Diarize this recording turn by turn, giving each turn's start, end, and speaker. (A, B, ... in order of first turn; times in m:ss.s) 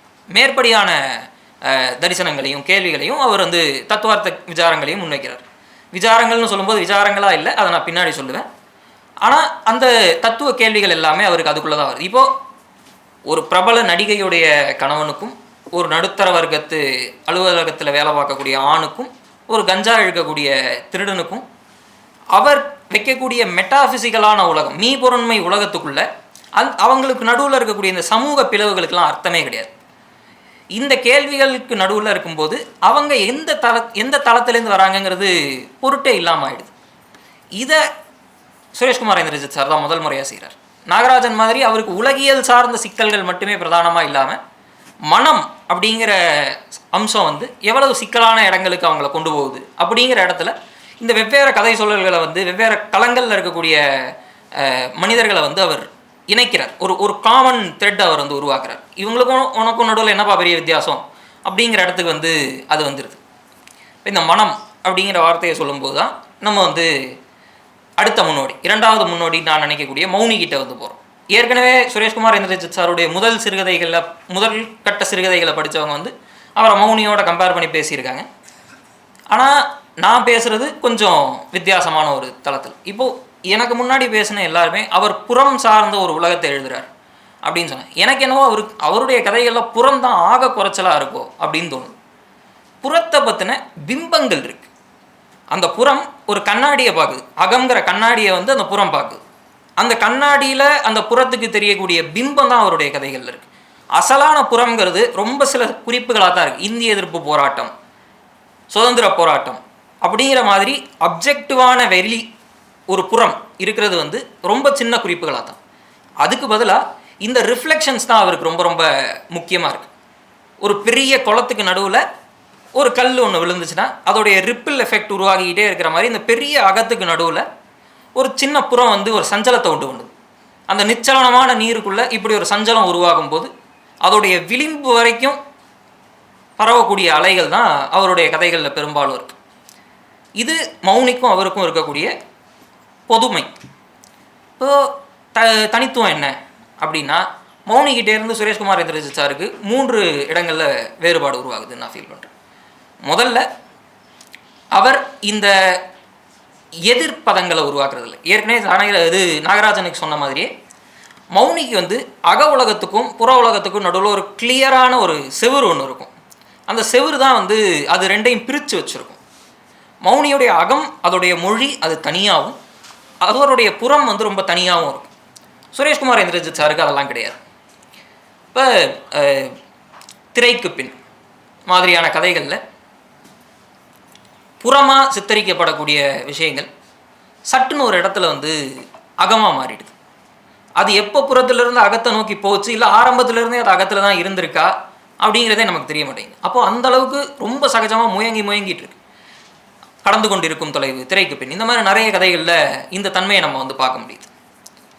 0:00.4-0:01.0 A
0:01.6-0:08.5 A
0:09.2-0:12.3 A
0:13.3-0:21.4 A
0:22.3-0:26.0 A
0:26.6-0:29.7 A
0:30.8-0:36.7 A
0:38.8-0:44.4 A
0:45.1-0:53.8 A
0:54.6-1:03.2 A
1:04.0-1:06.9 A
1:08.0-1:18.2 A
1:19.3-1:26.9 A
1:27.4-1:31.9 A
1:32.8-1:34.7 A
1:35.5-1:39.2 A
1:39.8-1:47.7 A
1:48.7-1:52.2 A
1:52.9-1:55.6 A
1:56.2-1:59.9 A
2:00.6-2:02.0 A
2:02.8-2:07.4 A
2:08.2-2:10.1 A
2:10.7-2:13.5 A
2:14.0-2:15.4 A
2:16.6-2:19.4 A
2:20.4-2:22.1 A
2:23.1-2:23.5 A
2:24.6-2:32.3 A
2:33.1-2:33.4 A
2:34.8-2:35.5 A
2:36.9-2:40.5 A
2:41.4-2:46.1 A
2:46.7-2:49.2 A
2:50.0-2:52.6 A
2:53.2-2:55.1 A
2:55.7-2:57.4 A
2:58.5-2:59.6 A
3:00.3-3:01.0 A
3:01.7-3:02.6 A
3:04.6-3:06.7 A
3:07.5-3:08.6 A
3:09.2-3:09.9 A
3:10.8-3:14.7 A
3:15.2-3:19.0 A
3:20.0-3:24.3 A